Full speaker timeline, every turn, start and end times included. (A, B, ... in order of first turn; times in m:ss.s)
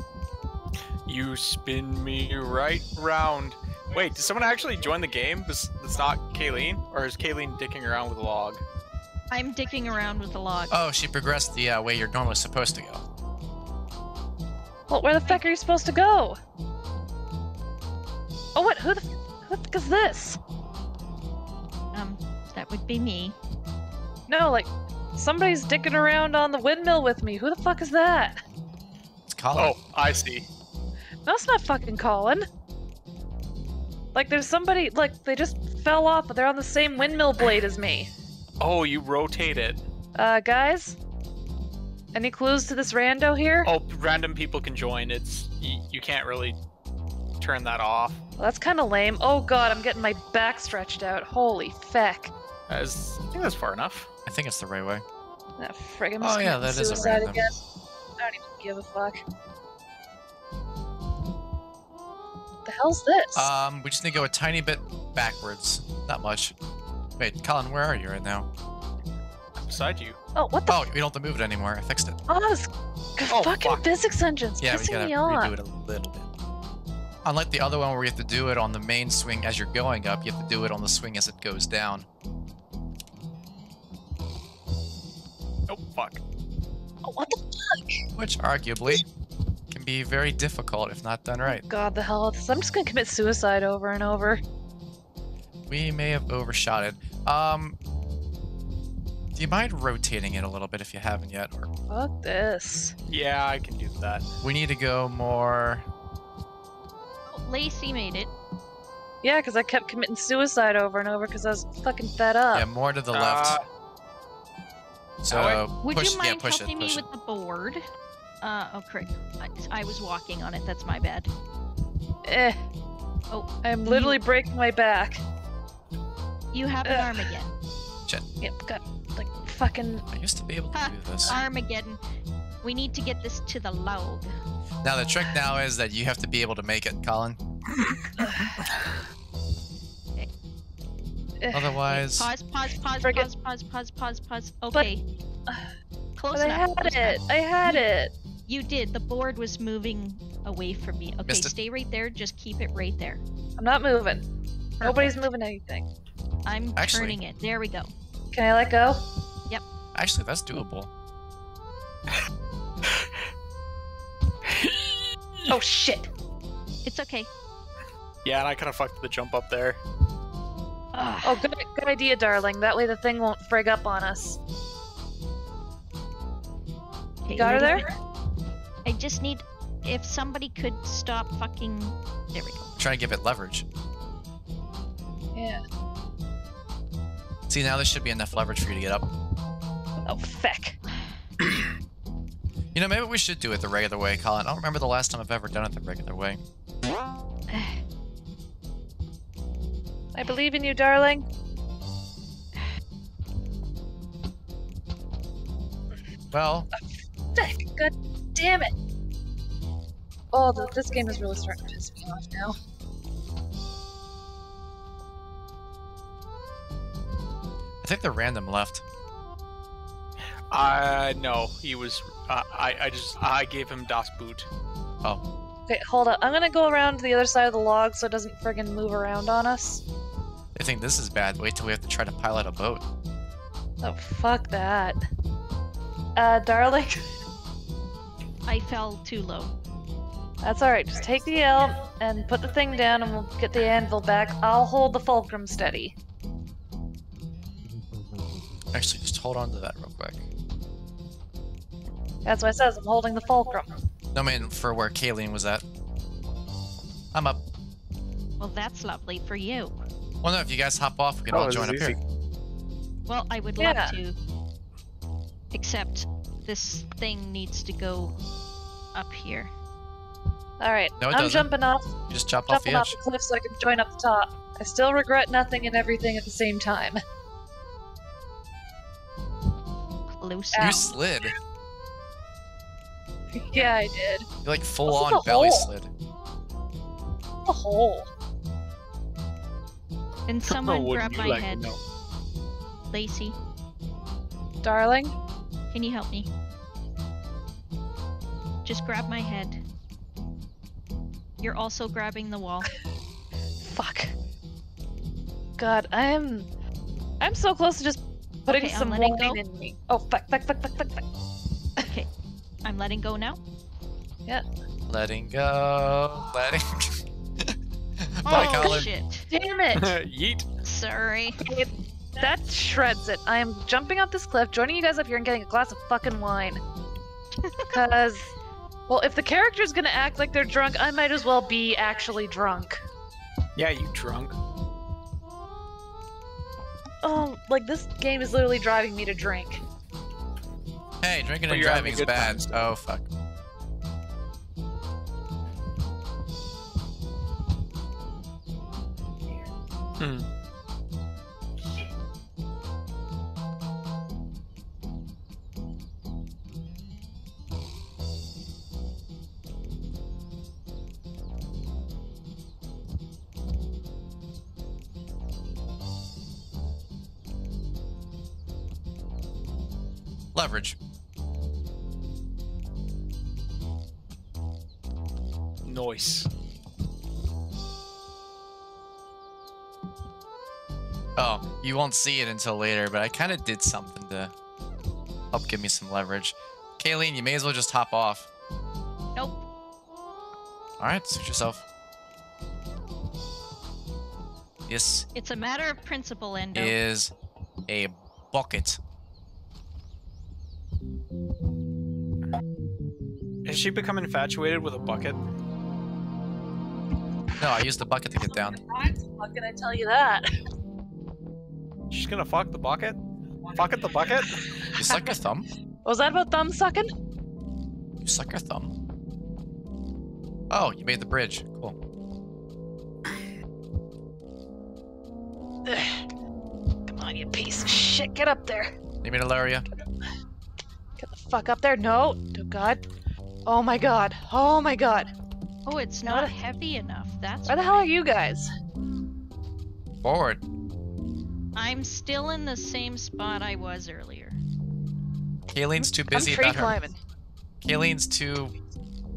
0:01.0-0:08.6 A
0:09.3-0:10.8 B
0:10.7-0:13.0 C
0:14.9-0:16.4 D
0:18.5-0:20.4 D
0:21.9-0:23.3 B
0:24.3-0:28.4 D
0:29.3-0:29.8 C
0:29.6-0:30.5 A
0:31.2-0:32.4 D
0:34.1-0:38.1 D
0:38.6-0:39.8 A
0:40.2-0:41.0 D
0:42.1-0:43.7 D
0:43.6-0:46.6 A
0:47.4-0:48.2 A
0:48.4-0:52.3 D
0:52.7-0:54.1 A
0:54.2-0:55.0 C
0:55.6-0:57.6 D
0:56.2-0:57.5 C
0:58.2-0:59.2 D
1:02.6-1:03.5 D
1:03.3-1:06.5 C
1:07.2-1:08.5 C
1:09.6-1:10.2 A
1:10.3-1:10.9 D
1:10.7-1:12.2 C
1:12.3-1:15.5 D
1:13.3-1:13.8 A
1:14.6-1:16.3 C
1:17.2-1:22.0 C
1:25.7-1:26.2 A
1:27.0-1:28.0 D
1:28.2-1:29.0 C
1:29.7-1:31.6 C
1:31.4-1:34.4 D
1:35.7-1:37.8 C
1:39.3-1:41.7 C
1:41.9-1:42.9 D
1:43.1-1:44.3 A
1:44.4-1:45.8 C
1:47.3-1:48.3 B
1:49.2-1:52.6 D
1:52.5-1:53.6 C
1:53.1-1:53.6 A
1:55.2-1:57.0 C
1:55.3-1:55.6 A
1:55.8-1:57.8 B
1:58.4-2:01.3 B
2:02.2-2:02.6 D
2:03.3-2:04.2 B
2:03.6-2:05.2 D
2:06.5-2:07.5 B
2:06.8-2:07.2 D
2:08.4-2:10.0 D
2:10.1-2:11.4 C
2:10.7-2:12.0 B
2:12.6-2:14.3 B
2:14.8-2:17.4 C
2:18.2-2:18.8 D
2:21.4-2:21.7 D
2:21.5-2:22.3 C
2:21.9-2:25.0 B
2:23.0-2:23.3 D
2:26.2-2:27.8 B
2:26.3-2:28.1 D
2:28.5-2:33.2 B
2:31.2-2:31.5 C
2:33.6-2:34.2 D
2:34.8-2:35.2 B
2:34.8-2:35.8 D
2:36.4-2:37.9 B
2:36.8-2:37.2 C
2:38.3-2:39.0 D
2:39.9-2:40.9 C
2:44.5-2:45.0 A
2:45.5-2:46.1 D
2:46.8-2:47.3 B
2:48.2-2:49.8 A
2:50.9-2:51.5 B
2:51.2-2:54.4 D
2:57.2-2:57.9 B
2:57.3-2:57.8 D
2:58.8-3:02.8 B
3:02.8-3:03.6 C
3:05.3-3:05.6 D
3:07.5-3:09.1 C
3:10.0-3:10.8 D
3:12.7-3:16.4 C
3:17.5-3:17.8 B
3:20.1-3:21.2 D
3:26.3-3:26.7 C
3:27.4-3:28.7 D
3:30.3-3:32.6 D
3:37.8-3:38.8 C
3:40.5-3:44.5 A
3:45.7-3:49.8 D
3:50.5-3:52.8 C
3:53.8-3:55.0 D
3:56.2-3:57.0 D
3:58.4-3:59.5 B
4:00.4-4:05.9 D
4:08.7-4:10.2 C
4:12.2-4:13.7 D
4:14.1-4:15.6 C
4:17.1-4:17.4 C
4:18.4-4:19.7 B
4:20.2-4:22.0 C
4:21.3-4:22.0 A
4:23.1-4:24.2 B
4:23.6-4:23.9 D
4:25.5-4:28.1 B
4:28.9-4:29.5 B
4:30.6-4:31.9 D
4:31.0-4:31.5 C
4:32.1-4:33.0 C
4:32.5-4:37.0 D
4:40.1-4:40.9 B
4:40.5-4:40.9 D
4:40.6-4:41.3 C
4:43.3-4:44.3 D
4:44.4-4:45.9 C
4:44.9-4:45.7 D
4:47.4-4:48.1 D
4:50.3-4:51.7 B
4:50.5-4:51.8 A
4:52.9-4:53.4 B
4:54.6-4:55.1 D
4:55.7-4:56.3 B
4:58.6-4:59.6 B
5:01.4-5:02.7 B
5:03.6-5:04.1 D
5:05.6-5:06.5 D
5:07.2-5:11.0 D
5:08.5-5:09.4 B
5:11.8-5:12.1 B
5:12.6-5:13.4 B
5:14.9-5:17.0 C
5:18.0-5:18.9 C
5:18.2-5:19.3 B
5:18.3-5:19.9 D
5:19.7-5:20.4 A
5:20.6-5:21.6 B
5:21.4-5:26.6 D
5:27.4-5:27.8 B
5:27.7-5:28.3 D
5:28.9-5:32.8 D
5:33.6-5:34.4 A
5:37.0-5:39.6 D
5:41.0-5:43.1 C
5:41.5-5:42.7 A
5:50.0-5:50.2 A
6:10.3-6:10.8 C
6:15.6-6:16.3 A
6:21.2-6:24.3 C
6:25.3-6:28.3 C
6:29.2-6:29.4 B
6:30.8-6:31.6 C
6:34.7-6:35.0 C
6:35.1-6:36.7 B
6:36.5-6:37.1 C
6:37.7-6:38.8 C
6:43.4-6:45.2 A
6:47.4-6:48.6 C
6:48.2-6:50.3 D
6:51.9-6:53.0 A
6:53.5-6:54.5 A
6:54.7-6:55.4 C
6:55.8-6:56.9 D
6:58.0-6:58.7 C
7:00.5-7:01.8 C
7:05.6-7:06.0 D
7:06.9-7:08.7 D
7:09.0-7:09.6 C
7:11.0-7:12.8 D
7:13.4-7:15.1 D
7:15.6-7:17.9 B
7:16.0-7:16.4 D
7:17.5-7:18.5 D
7:20.0-7:20.4 C
7:21.5-7:24.4 B
7:25.5-7:26.8 C
7:25.8-7:27.0 D
7:27.6-7:28.5 C